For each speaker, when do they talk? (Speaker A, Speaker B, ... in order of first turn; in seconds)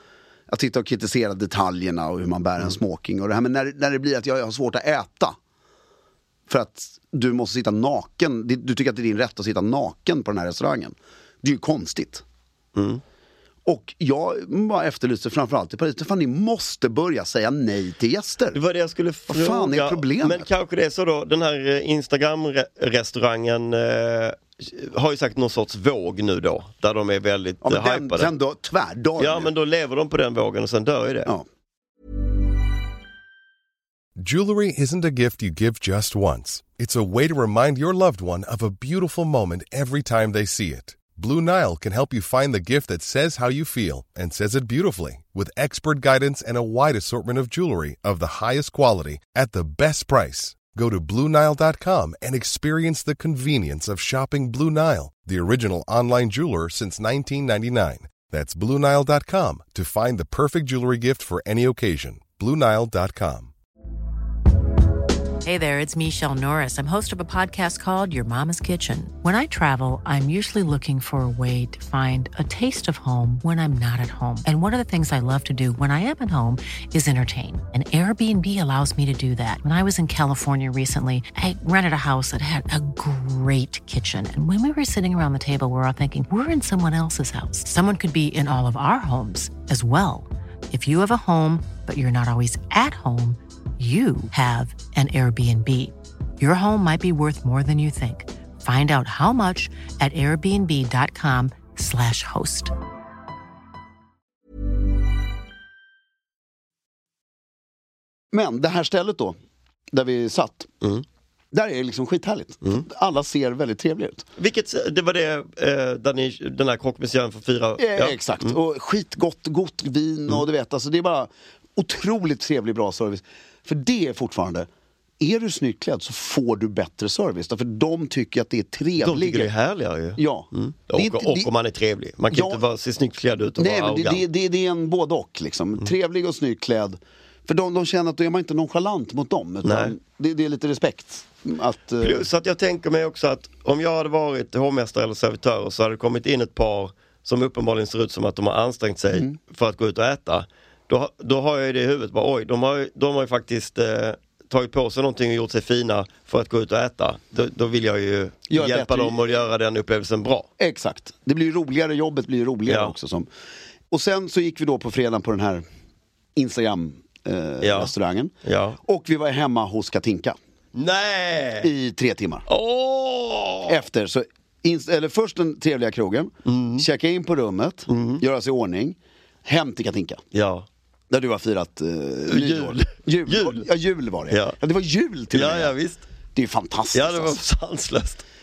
Speaker A: 0.5-5.3, 6.5-12.2, 13.6-18.6, 19.3-20.5, 27.6-29.5, 108.3-109.3, 109.9-110.7, 111.5-114.2, 117.8-124.7, 125.2-129.5, 130.2-131.5, 132.3-132.6, 133.6-142.3, 158.5-159.4, 160.6-163.3, 163.9-165.6, 166.3-168.3, 168.8-170.4, 171.6-172.4, 173.7-180.2, 181.1-185.7, 186.3-187.4
Speaker B: 12.7-13.0, 18.5-28.3, 29.2-31.3, 114.4-118.6, 129.0-134.2, 139.6-139.9, 142.0-160.5, 162.7-162.9, 167.6-167.9, 168.4-168.8, 170.7-171.7, 172.5-173.8, 176.4-176.8, 177.9-178.2, 180.3-180.7, 182.3-183.6, 184.3-184.6, 185.3-186.0, 186.9-188.2
Speaker C: 34.2-63.5
Speaker D: 65.4-102.7